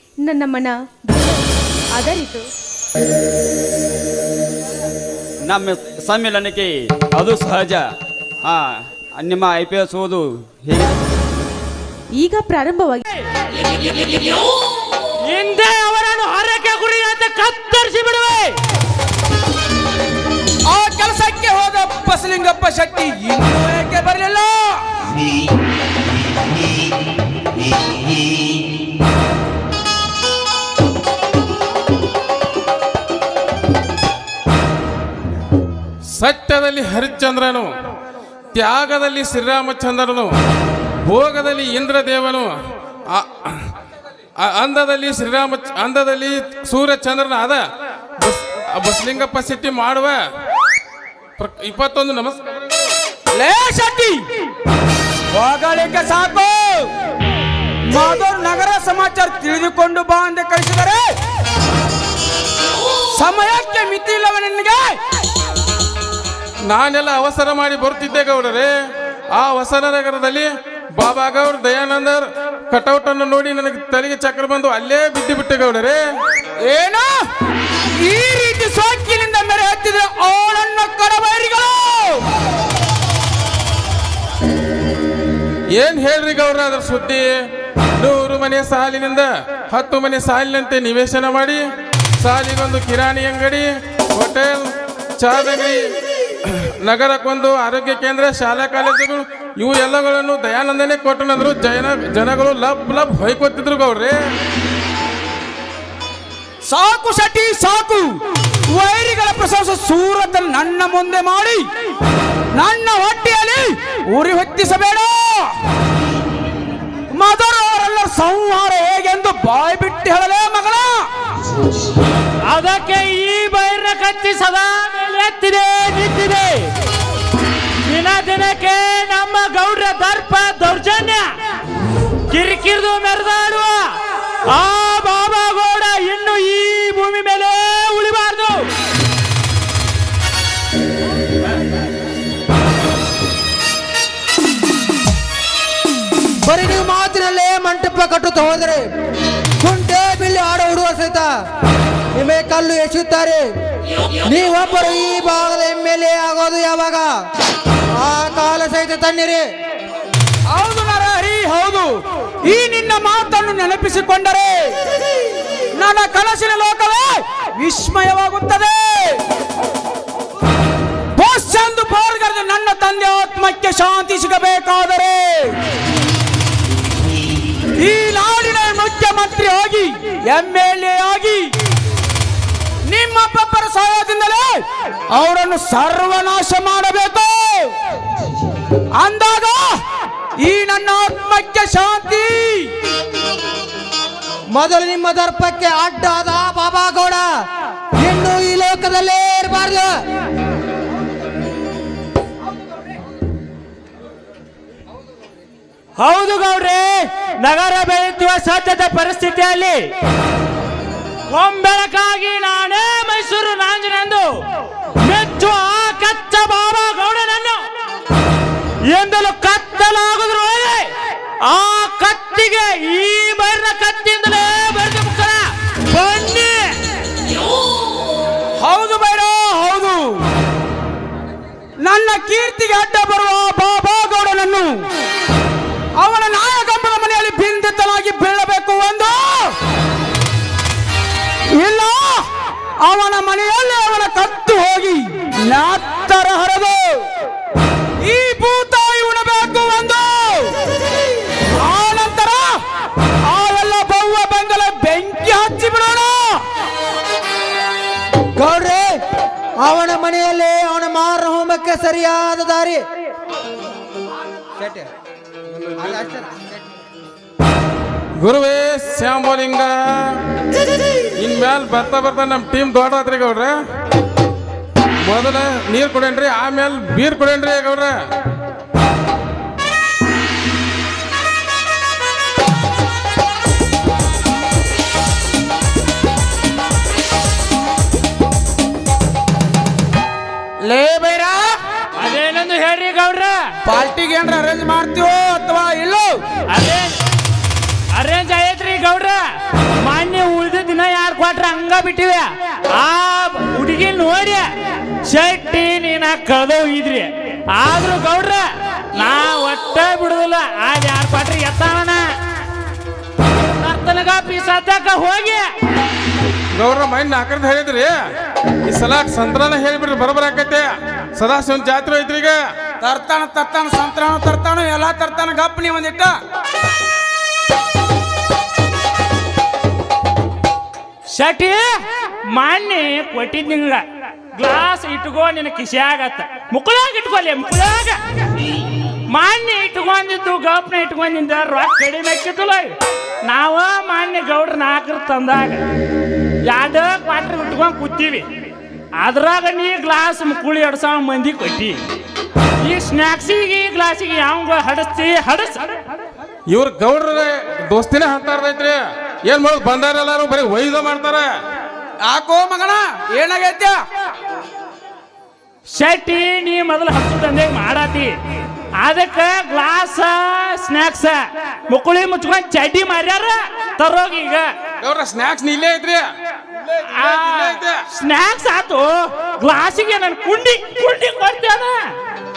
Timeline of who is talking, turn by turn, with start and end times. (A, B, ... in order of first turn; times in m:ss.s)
0:00.2-0:02.5 A
0:05.4-0:07.8 B
0:08.4-0:10.9 B
0:12.1-0:13.0 A
0:15.2-0:18.6 C
0:20.6-0:24.8 D
0:36.1-0:37.7 E
0:38.5-0:40.3 E
0:41.0-0:42.5 E
0:43.1-0:43.7 E
0:44.4-0:47.6 E
0:48.2-0:50.2 E
0:51.4-0:52.4 E
0:53.3-0:54.2 D
0:55.3-0:56.9 D
0:57.9-1:01.2 D
1:03.1-1:05.0 D
1:06.7-1:08.7 E
1:09.3-1:16.0 E
1:16.6-1:17.3 D
1:18.0-1:22.2 D
1:25.7-1:27.3 E
1:28.0-1:31.6 E
1:32.2-1:35.8 E
1:36.4-1:44.2 E
1:46.6-1:51.7 D
1:52.5-1:55.5 D
1:57.1-2:01.1 D
2:02.4-2:06.7 C
2:07.8-2:11.3 C
2:12.3-2:18.7 C
2:26.4-2:28.8 F
2:29.6-2:31.3 F
2:32.1-2:33.4 F
2:34.2-2:37.1 F
2:38.0-2:39.4 F
2:40.5-2:44.8 D
2:45.7-2:49.2 D
2:51.1-2:55.6 D
2:57.8-3:01.5 D
3:02.8-3:07.7 D
3:09.0-3:09.8 D
3:10.4-3:12.7 D
3:14.5-3:17.2 F
3:18.0-3:19.9 F
3:26.0-3:29.9 C
3:31.3-3:34.4 C
3:35.0-3:37.6 C
3:38.9-3:46.7 C
3:48.6-3:50.2 D
3:51.8-3:54.8 D
3:56.0-3:59.5 D
4:01.5-4:02.3 D
4:02.8-4:07.0 D
4:08.0-4:10.6 D
4:11.6-4:12.6 D
4:13.2-4:16.4 D
4:18.3-4:19.0 F
4:19.6-4:22.8 F
4:24.6-4:24.9 F
4:25.8-4:26.5 F
4:28.2-4:30.2 E
4:31.2-4:33.6 E
4:35.0-4:37.9 E
4:50.6-4:51.6 D
4:52.0-4:53.4 C
4:53.6-4:56.2 D
4:56.5-4:57.0 C
4:57.9-4:59.2 C
4:59.8-5:04.5 C
5:05.0-5:12.0 C
5:13.5-5:15.5 C
5:16.5-5:18.0 E
5:18.6-5:22.4 E
5:22.8-5:26.1 D
5:31.1-5:38.0 C
5:39.1-5:45.6 C
5:46.4-5:48.3 C
5:49.0-5:51.8 C
5:52.6-5:55.6 C
5:56.5-6:01.3 E
6:02.0-6:03.8 D
6:05.7-6:08.1 C
6:08.8-6:14.5 C
6:14.8-6:16.1 E
6:16.8-6:17.8 E
6:16.9-6:21.9 C